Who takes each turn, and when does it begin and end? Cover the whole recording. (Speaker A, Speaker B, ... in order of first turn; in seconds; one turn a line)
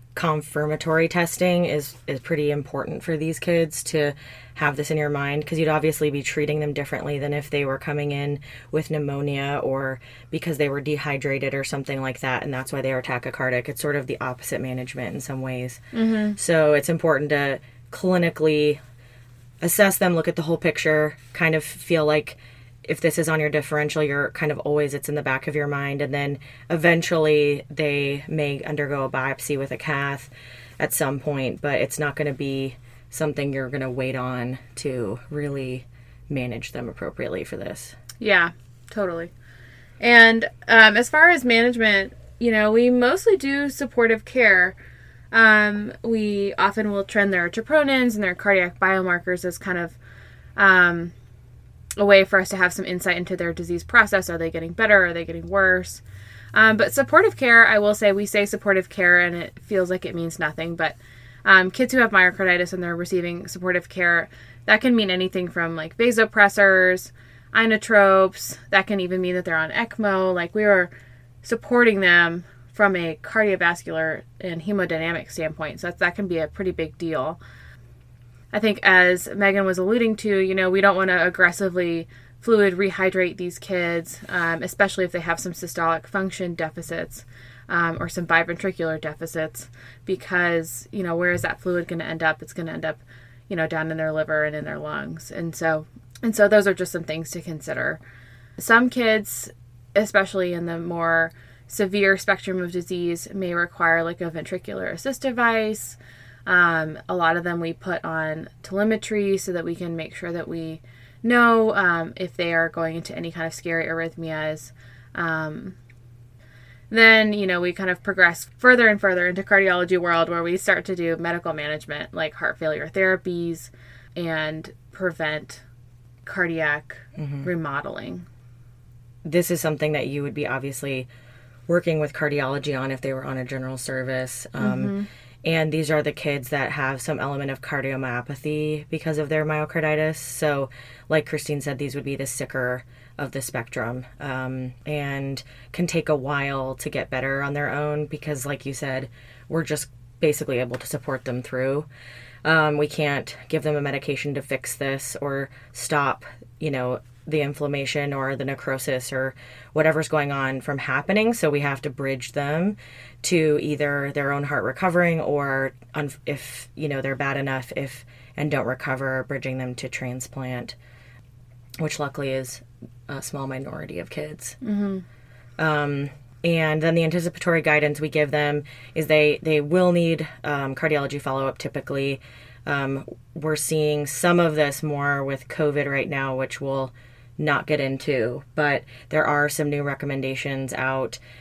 Speaker A: 0.1-15.8
Speaker B: 15.9-16.4
Speaker A: 16.4-18.8
Speaker A: 19.6-38.0
Speaker B: 38.2-39.3
Speaker B: 40.0-44.8
Speaker B: 45.3-50.0
Speaker B: 50.6-51.1
Speaker B: 52.0-56.0
Speaker B: 56.5-70.9
Speaker B: 71.4-77.4
Speaker B: 78.5-98.0
Speaker B: 98.6-115.8
Speaker B: 116.9-125.6
Speaker B: 126.2-128.3
Speaker A: 127.2-127.5
Speaker A: 129.2-131.1
Speaker A: 131.7-151.9
Speaker B: 134.6-135.1
Speaker A: 152.4-170.8
Speaker A: 171.8-174.6
Speaker B: 174.6-175.1
Speaker A: 175.6-191.2